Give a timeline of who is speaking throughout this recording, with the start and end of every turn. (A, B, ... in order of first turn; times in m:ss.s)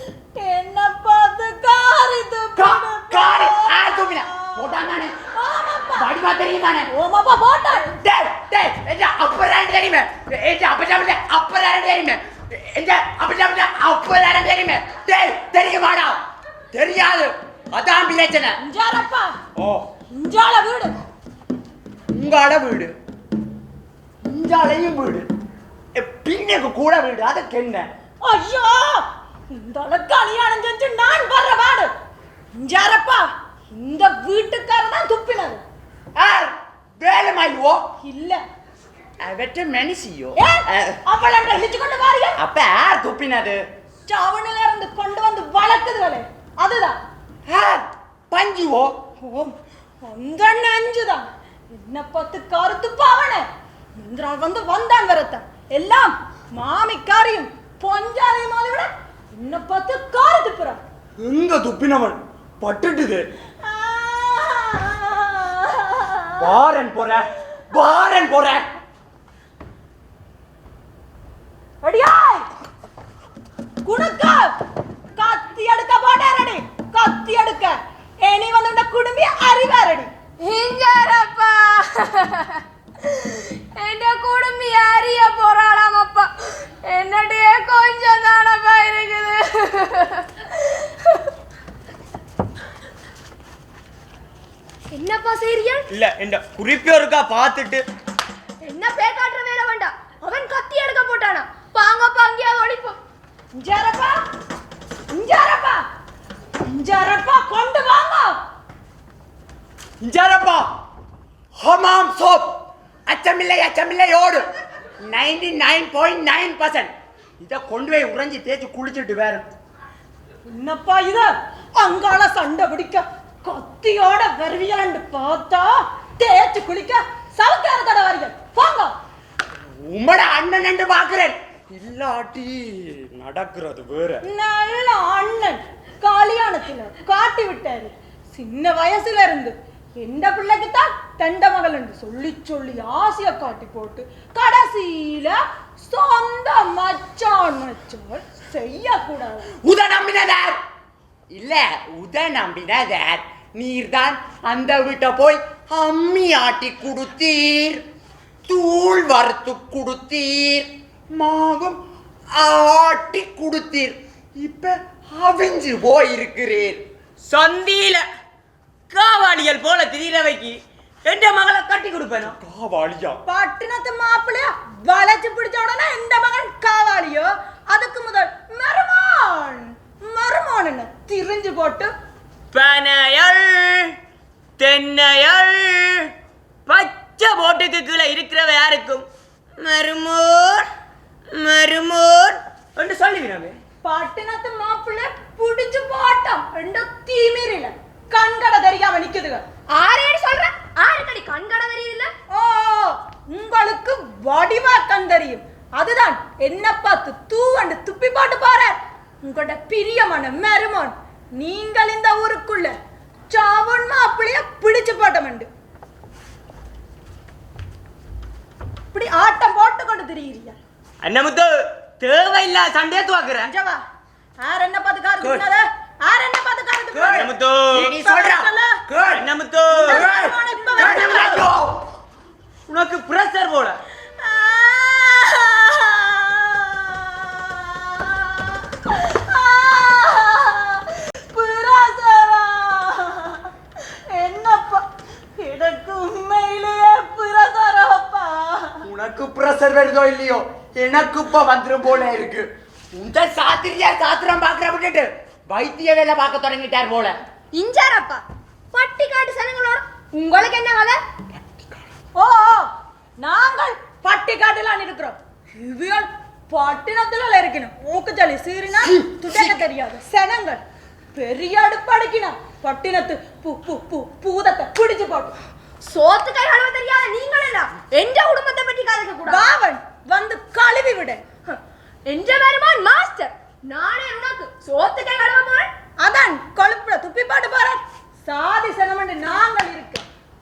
0:00.4-0:04.8 A
0:02.6-0:05.1 B
0:05.3-0:06.1 A
0:05.9-0:06.9 B
0:06.9-0:07.9 A
0:07.8-0:16.2 B
0:16.7-0:18.6 B
0:18.6-0:19.3 A
0:19.6-0:19.8 B
0:20.1-0:20.9 A
0:22.1-0:22.9 B
0:24.2-0:25.3 B
0:25.9-0:27.9 B
0:28.2-0:31.9 A
0:32.6-0:35.6 A
0:36.2-0:37.8 B
0:38.0-0:38.4 A
0:39.2-0:41.0 B
0:40.4-0:42.4 A
0:42.4-0:43.6 B
0:44.1-0:47.0 A
0:47.5-0:49.0 B
0:49.2-1:00.8 A
1:01.2-1:03.2 B
1:03.6-1:06.4 A
1:06.4-1:08.6 B
1:11.8-1:12.5 A
1:13.8-1:14.5 A
1:15.2-1:20.1 A
1:20.4-1:31.3 C
1:34.9-1:35.9 C
1:35.9-1:37.8 D
1:38.6-1:43.0 C
1:43.5-1:44.2 A
1:45.1-1:45.8 A
1:46.6-1:48.4 A
1:50.0-1:50.7 B
1:51.6-1:54.4 B
1:55.0-1:59.5 B
2:00.5-2:09.0 A
2:09.8-2:14.2 B
2:14.2-2:29.5 A
2:29.6-2:30.6 B
2:31.3-2:37.8 B
2:38.5-2:41.8 B
2:42.3-2:46.8 B
2:47.3-2:48.0 D
2:48.9-2:52.4 D
2:52.4-2:53.2 B
2:53.2-3:01.9 A
3:02.5-3:03.9 D
3:04.6-3:06.1 D
3:06.7-3:09.0 D
3:09.6-3:10.7 D
3:11.3-3:13.6 D
3:13.8-3:19.4 A
3:19.7-3:22.1 C
3:22.3-3:32.7 A
3:33.3-3:35.5 A
3:38.9-3:40.6 A
3:41.0-3:43.5 D
3:43.4-3:43.8 A
3:44.4-3:48.8 A
3:46.9-3:49.3 B
3:47.1-3:47.9 D
3:49.2-3:50.1 D
3:49.8-3:51.8 B
3:49.9-3:51.5 A
3:52.7-3:53.8 D
3:54.2-4:03.5 A
4:04.1-4:04.8 A
4:05.4-4:08.8 A
4:08.8-4:17.2 B
4:17.5-4:21.0 C
4:22.2-4:22.7 A
4:23.2-4:30.6 A
4:28.9-4:29.3 B
4:31.1-4:35.3 A
4:35.8-4:39.5 C
4:39.3-4:41.2 A
4:41.5-4:45.7 C
4:46.0-4:50.0 A